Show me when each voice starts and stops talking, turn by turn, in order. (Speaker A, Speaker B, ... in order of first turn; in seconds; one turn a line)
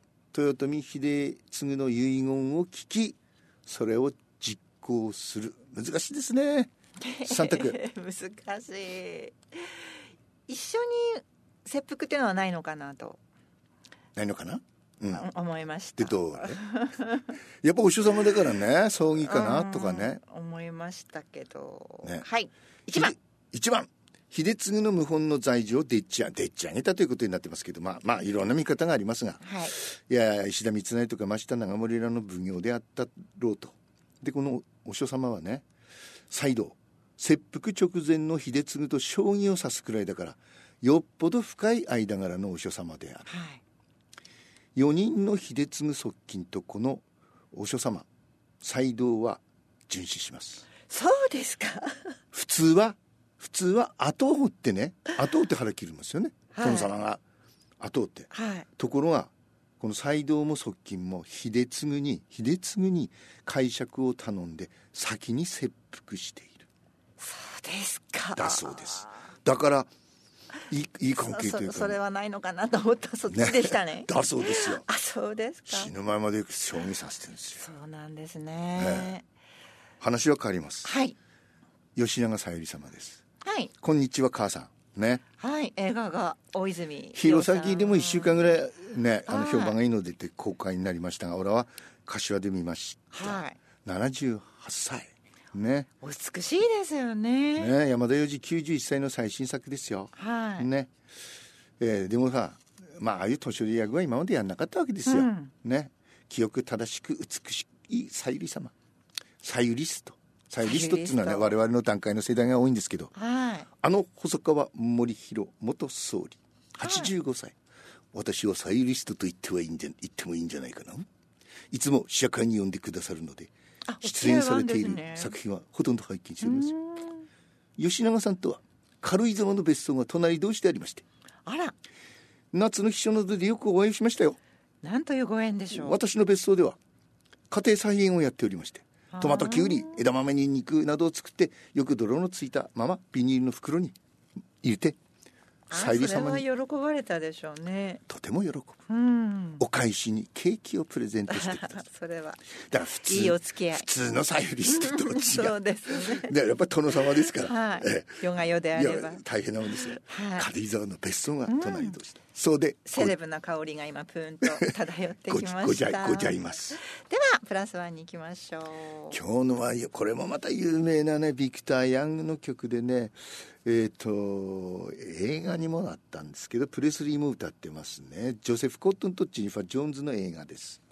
Speaker A: 0.3-6.7
Speaker B: 7.0-9.9
Speaker A: 7.2-7.8
Speaker B: 10.5-13.2
Speaker A: 14.2-15.3
Speaker B: 15.1-17.4
Speaker A: 16.0-16.6
Speaker A: 17.6-20.2
Speaker B: 19.2-23.1
Speaker A: 22.9-35.6
Speaker B: 29.4-29.7
Speaker A: 36.3-43.3
Speaker B: 43.3-43.6
Speaker A: 44.8-48.1
Speaker A: 48.6-50.7
Speaker B: 50.9-52.1
Speaker A: 52.3-57.2
Speaker B: 56.5-56.9
Speaker A: 57.8-66.7
Speaker B: 58.3-58.7
Speaker B: 67.2-69.2
Speaker A: 68.4-69.9
Speaker A: 70.7-72.0
Speaker B: 71.2-75.9
Speaker A: 73.3-74.8
Speaker A: 75.7-77.6
Speaker B: 77.6-79.2
Speaker A: 78.8-79.2
Speaker A: 80.0-80.9
Speaker B: 80.8-81.2
Speaker A: 82.0-83.2
Speaker B: 83.4-83.7
Speaker A: 83.8-85.2
Speaker B: 85.4-88.5
Speaker A: 87.2-95.9
Speaker B: 89.3-89.8
Speaker B: 93.1-93.6
Speaker B: 96.0-97.7
Speaker A: 97.6-100.9
Speaker B: 100.2-100.7
Speaker A: 101.8-108.7
Speaker B: 105.1-105.5
Speaker A: 109.4-113.1
Speaker B: 110.6-111.6
Speaker B: 113.2-113.7
Speaker A: 113.8-117.6
Speaker B: 116.8-117.1
Speaker A: 118.1-121.1
Speaker A: 121.7-123.5
Speaker B: 123.9-125.3
Speaker A: 124.0-126.8
Speaker B: 126.4-127.3
Speaker A: 127.8-131.0
Speaker B: 131.4-131.7
Speaker A: 132.5-134.4
Speaker B: 134.8-136.0
Speaker A: 135.7-136.8
Speaker A: 137.5-144.0
Speaker B: 139.1-140.0
Speaker A: 144.6-145.0
Speaker A: 145.7-146.5
Speaker B: 145.7-148.0
Speaker A: 148.1-148.8
Speaker B: 148.9-149.6
Speaker A: 149.6-151.8
Speaker B: 151.3-152.4
Speaker A: 152.7-158.2
Speaker B: 153.0-153.9
Speaker B: 154.7-156.3
Speaker B: 157.0-159.2
Speaker A: 158.8-163.2
Speaker B: 159.8-160.5
Speaker B: 161.5-162.0
Speaker B: 162.9-169.2
Speaker A: 165.3-166.8
Speaker A: 169.1-180.8